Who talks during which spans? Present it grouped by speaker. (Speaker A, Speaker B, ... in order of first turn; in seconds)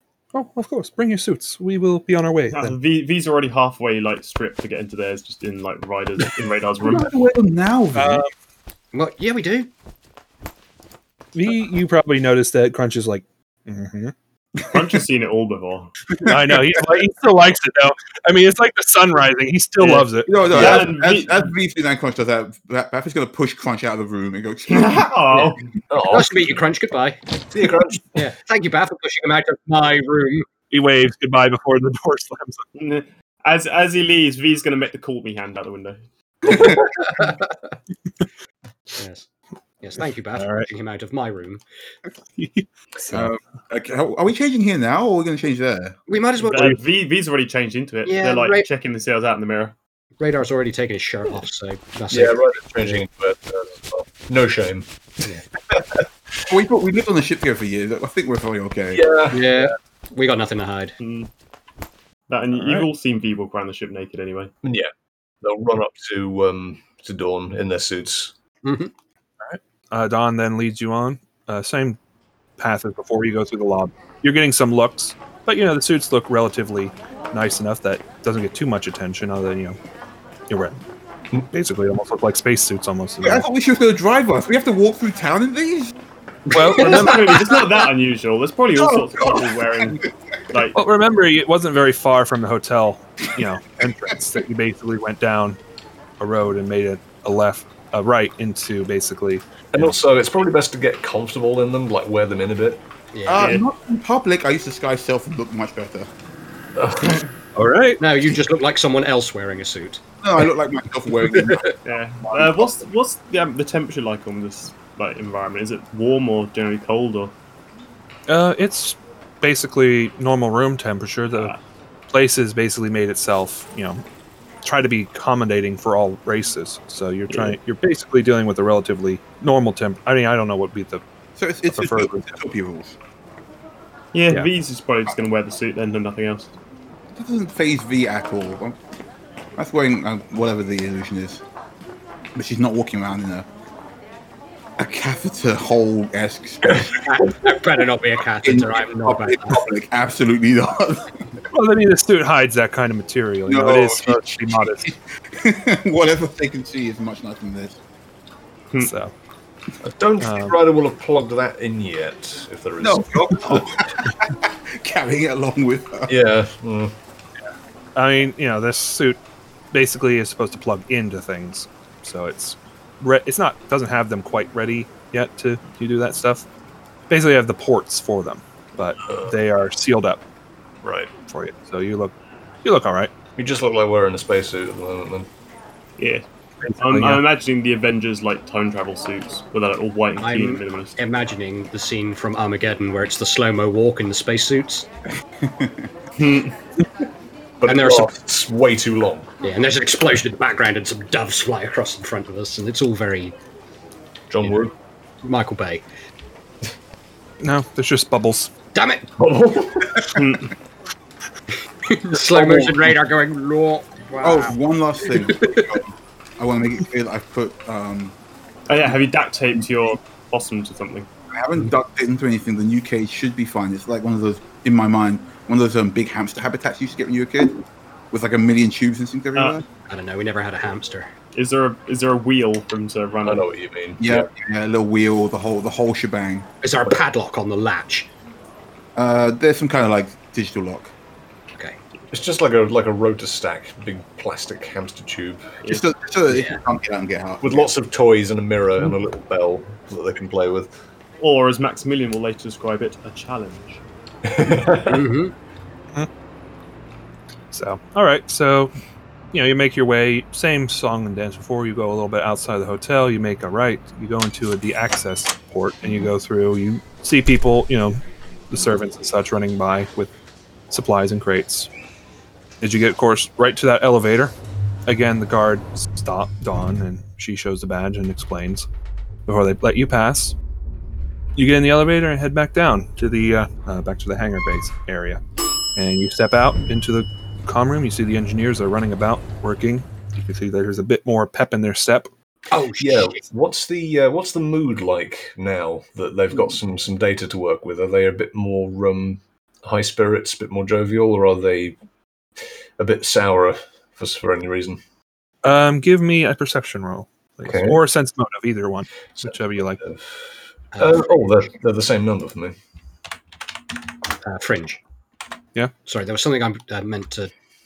Speaker A: 0.3-2.8, 7.9-8.3, 11.3-14.1, 16.2-20.8, 30.7-32.6, 40.4-40.7, 42.4-43.3, 62.5-62.9, 69.4-72.0, 72.6-79.8, 80.5-80.8, 81.5-83.5, 86.5-87.4, 90.7-95.6, 96.2-100.0, 107.5-108.0, 118.3-121.5, 122.1-124.0, 124.6-131.0, 131.7-132.3, 151.5-154.9, 158.8-159.1, 160.2-160.6, 167.9-169.2, 169.7-176.4, 177.1-180.2, 181.3-183.1, 186.6-187.2, 207.4-208.5, 257.5-258.7, 259.3-270.1, 270.7-271.7, 272.6-274.3, 274.9-278.6, 279.3-280.3, 281.4-285.2, 285.7-292.1, 305.4-309.8
Speaker B: 2.5-7.1, 14.7-16.1, 19.8-21.5, 24.7-25.6, 32.7-36.8, 46.4-49.7, 61.0-61.3, 62.3-64.5, 86.8-90.8, 103.4-103.6, 111.8-117.3, 121.3-121.6, 127.3-127.6, 134.1-136.5, 186.0-186.2, 186.8-190.9, 196.2-196.5, 210.0-210.5, 218.7-221.1, 229.3-229.6, 231.3-233.5, 251.2-253.8
Speaker C: 6.8-8.2, 16.2-17.0, 20.2-25.6, 36.5-36.8, 43.1-46.0, 56.5-59.1, 83.2-85.9, 88.8-90.0, 103.2-106.1, 110.2-112.8, 131.3-133.0, 137.1-138.8, 139.6-141.4, 142.3-143.5, 144.8-147.1, 148.4-151.3, 153.4-157.8, 162.8-166.1, 195.4-195.9, 214.2-218.2, 221.3-227.6, 228.1-229.6, 234.0-236.5, 238.9-240.9, 245.7-247.7
Speaker D: 8.9-9.7, 26.0-27.2, 28.1-30.5, 36.5-37.7, 39.0-39.3, 39.8-41.6, 46.1-46.8, 48.0-48.7, 50.2-53.0, 59.3-61.0, 68.6-68.9, 86.6-87.1, 103.1-103.6, 108.0-110.0, 111.3-111.8, 147.0-149.6, 190.2-194.9, 197.6-198.1, 199.4-203.3, 205.2-205.8, 208.7-209.1, 211.8-215.8, 229.9-231.1, 236.6-238.1, 246.3-246.6, 254.8-255.3, 292.5-293.2, 310.7-311.3, 314.2-314.8, 315.9-317.3
Speaker E: 25.9-26.5, 27.5-28.2, 52.1-56.1, 58.9-59.5, 64.6-64.9, 65.4-68.3, 99.7-102.8, 106.8-107.3, 159.8-163.6, 166.1-166.9, 179.0-179.3, 180.8-181.1, 183.3-185.3, 197.6-199.3, 204.3-204.7, 209.2-210.2, 233.2-234.3, 242.1-245.6, 247.4-250.7, 254.2-255.1, 292.8-301.8, 302.8-304.8, 307.4-307.8, 309.2-312.6